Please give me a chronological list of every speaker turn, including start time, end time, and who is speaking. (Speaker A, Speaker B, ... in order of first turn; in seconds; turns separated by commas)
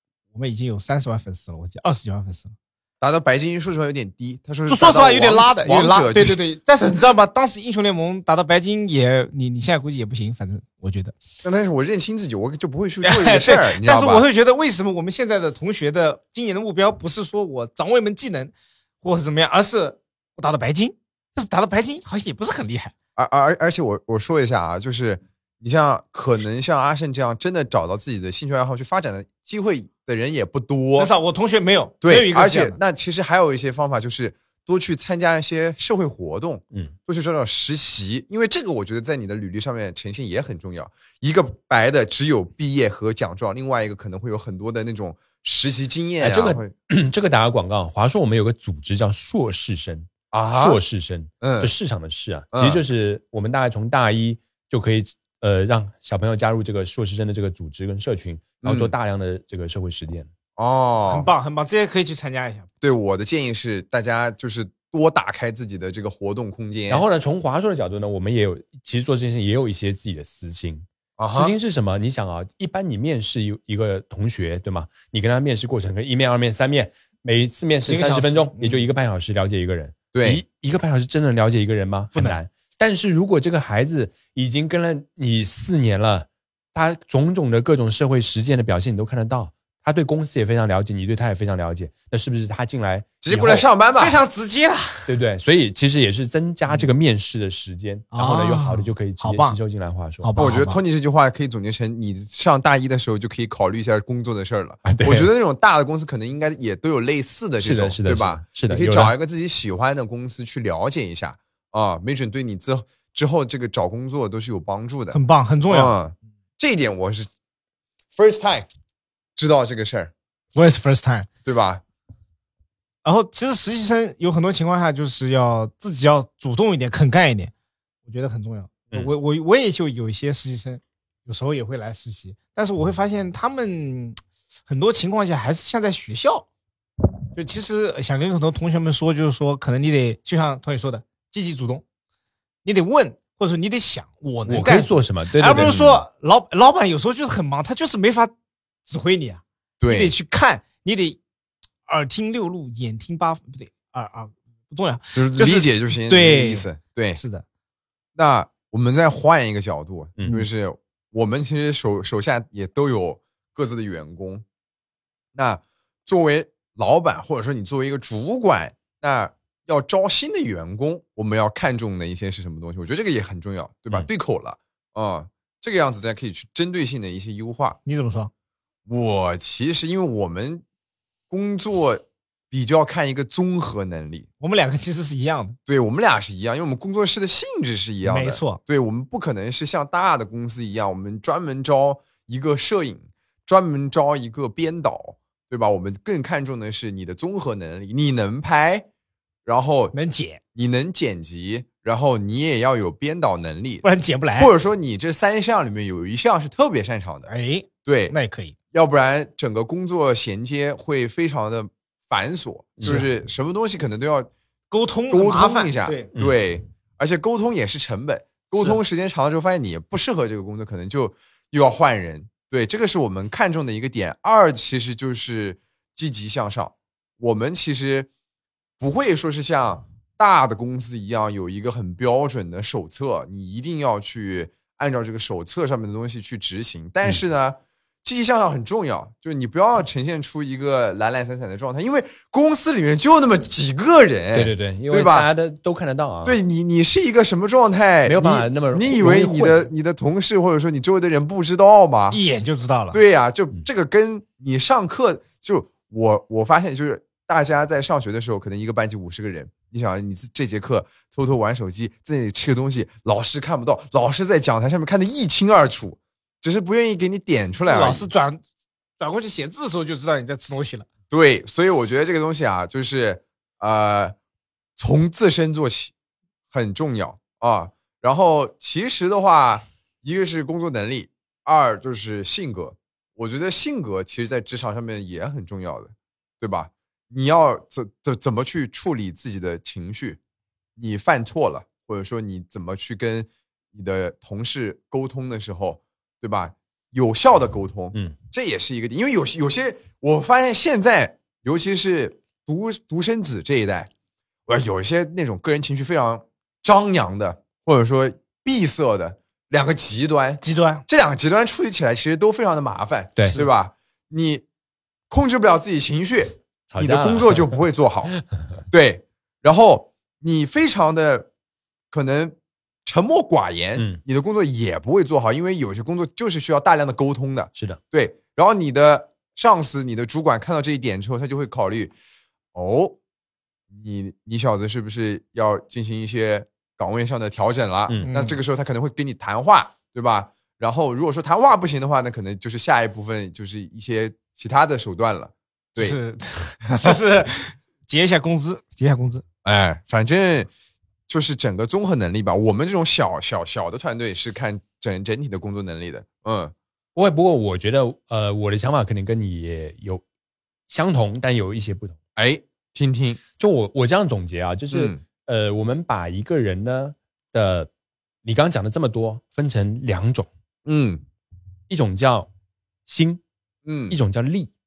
Speaker A: 0.3-2.5, Speaker B: 3.0-6.4, Speaker A: 4.7-11.1, Speaker B: 11.4-14.2, Speaker A: 13.0-22.9, Speaker B: 23.1-31.1, Speaker A: 30.9-32.8, Speaker B: 32.0-46.7, Speaker C: 46.2-60.3, Speaker B: 50.3-50.8, Speaker B: 51.4-51.7, Speaker B: 52.5-52.8, Speaker B: 58.6-58.9, Speaker B: 60.6-61.3, Speaker A: 61.1-62.7, Speaker B: 62.8-67.0, Speaker C: 66.9-93.6, Speaker B: 71.2-71.5, Speaker A: 77.8-78.9, Speaker B: 80.1-80.4, Speaker B: 93.2-94.2, Speaker A: 94.0-95.1, Speaker C: 95.1-100.3, Speaker A: 98.1-99.6, Speaker A: 100.2-100.8, Speaker B: 100.4-117.3, Speaker C: 104.8-105.3, Speaker C: 107.6-109.1, Speaker A: 115.1-115.9, Speaker B: 118.1-118.7, Speaker B: 119.3-120.1, Speaker A: 120.5-121.3, Speaker B: 121.4-121.8, Speaker A: 123.0-127.5, Speaker A: 128.1-136.5, Speaker A: 137.3-141.8, Speaker A: 142.6-148.3, Speaker C: 144.5-145.8, Speaker B: 145.6-146.0, Speaker A: 148.8-151.2, Speaker B: 149.8-150.1, Speaker A: 151.9-157.4, Speaker B: 155.1-157.2, Speaker B: 158.2-164.4, Speaker B: 165.3-177.8, Speaker A: 177.8-178.3, Speaker B: 178.9-180.6, Speaker B: 181.3-184.3, Speaker A: 184.4-185.6, Speaker B: 185.7-198.8, Speaker A: 188.0-188.6, Speaker B: 199.4-199.9, Speaker A: 199.9-200.4, Speaker B: 200.5-207.3, Speaker A: 203.8-204.5, Speaker A: 207.3-208.5, Speaker B: 207.8-208.1, Speaker B: 208.7-214.3, Speaker A: 212.8-213.1, Speaker A: 214.7-216.1, Speaker B: 215.1-228.1, Speaker B: 228.8-245.3, Speaker C: 244.3-246.4, Speaker B: 246.2-252.2, Speaker C: 248.1-249.7, Speaker A: 252.1-253.0, Speaker B: 252.9-268.1, Speaker A: 267.7-268.4, Speaker A: 269.0-270.9, Speaker B: 271.1-274.1, Speaker B: 274.8-275.9, Speaker B: 276.5-290.2, Speaker B: 290.8-303.9, Speaker B: 304.5-314.4, Speaker A: 310.4-310.8, Speaker B: 315.1-318.1, Speaker C: 316.7-317.5, Speaker B: 318.7-321.3, Speaker B: 321.9-331.9, Speaker B: 332.5-333.0, Speaker B: 333.7-346.0, Speaker A: 338.0-338.4, Speaker A: 345.8-349.2, Speaker B: 346.7-346.9, Speaker B: 349.4-350.5, Speaker B: 351.1-356.5, Speaker C: 356.9-360.0, Speaker C: 360.7-362.0, Speaker B: 362.1-363.2, Speaker C: 363.4-367.7, Speaker B: 364.7-365.0, Speaker C: 368.2-370.3, Speaker B: 370.6-371.0, Speaker C: 371.7-372.3, Speaker C: 372.9-373.2, Speaker B: 373.6-374.0, Speaker C: 373.9-374.5